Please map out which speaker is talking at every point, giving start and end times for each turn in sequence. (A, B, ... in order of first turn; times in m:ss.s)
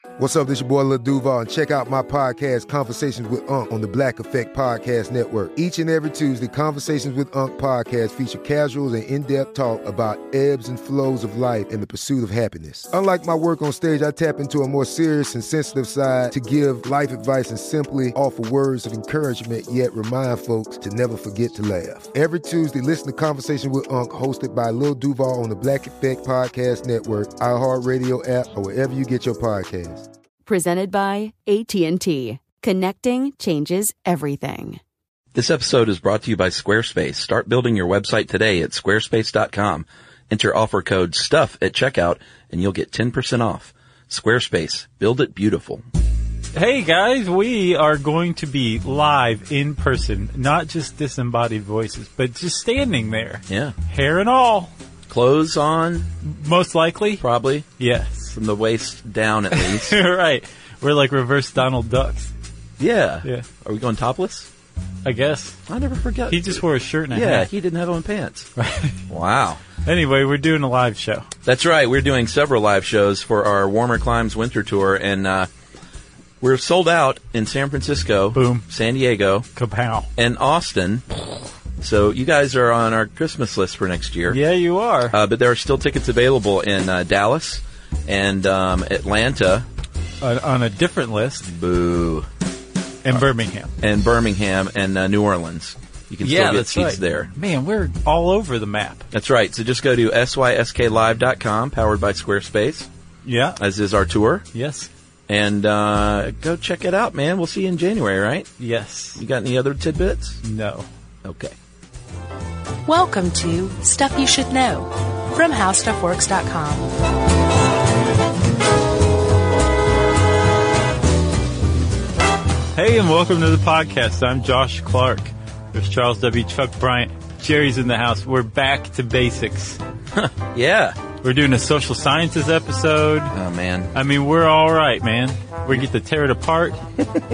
0:00.2-0:30.0 A
0:30.4-0:34.8 B
0:35.3-0:45.8 C
0:46.5-0:54.7 D
0:53.5-0:53.7 C
0:55.1-0:56.1 C
0:56.2-0:57.2 D
0:57.2-0:57.7 C
0:57.8-0:58.4 D
0:58.3-1:00.0 C
0:59.5-1:02.3 D
1:02.8-1:04.5 C
1:05.0-1:05.6 D
1:05.7-1:08.5 C
1:06.3-1:07.5 D
1:08.6-1:09.0 D
1:09.1-1:09.6 C
1:09.8-1:11.3 D
1:11.4-1:15.5 C
1:16.4-1:19.5 C
1:18.3-1:18.6 D
1:19.6-1:20.1 D
1:20.2-1:21.0 C
1:21.8-1:24.4 C
1:24.3-1:25.1 D
1:25.1-1:29.7 C
1:30.2-1:31.5 D
1:31.4-1:32.3 C
1:33.0-1:33.7 D
1:33.8-1:37.3 C
1:36.2-1:39.1 D
1:39.1-1:42.9 C
1:43.2-1:43.6 D
1:43.6-1:44.4 C
1:44.5-1:44.9 D
1:45.3-1:48.5 C
1:48.6-1:49.2 D
1:49.2-1:50.4 C
1:50.4-1:50.9 D
1:51.2-1:51.5 C
1:52.8-1:56.9 E
2:02.7-2:09.8 D
2:10.1-2:11.0 C
2:11.2-2:13.3 D
2:13.3-2:13.9 C
2:13.9-2:16.8 D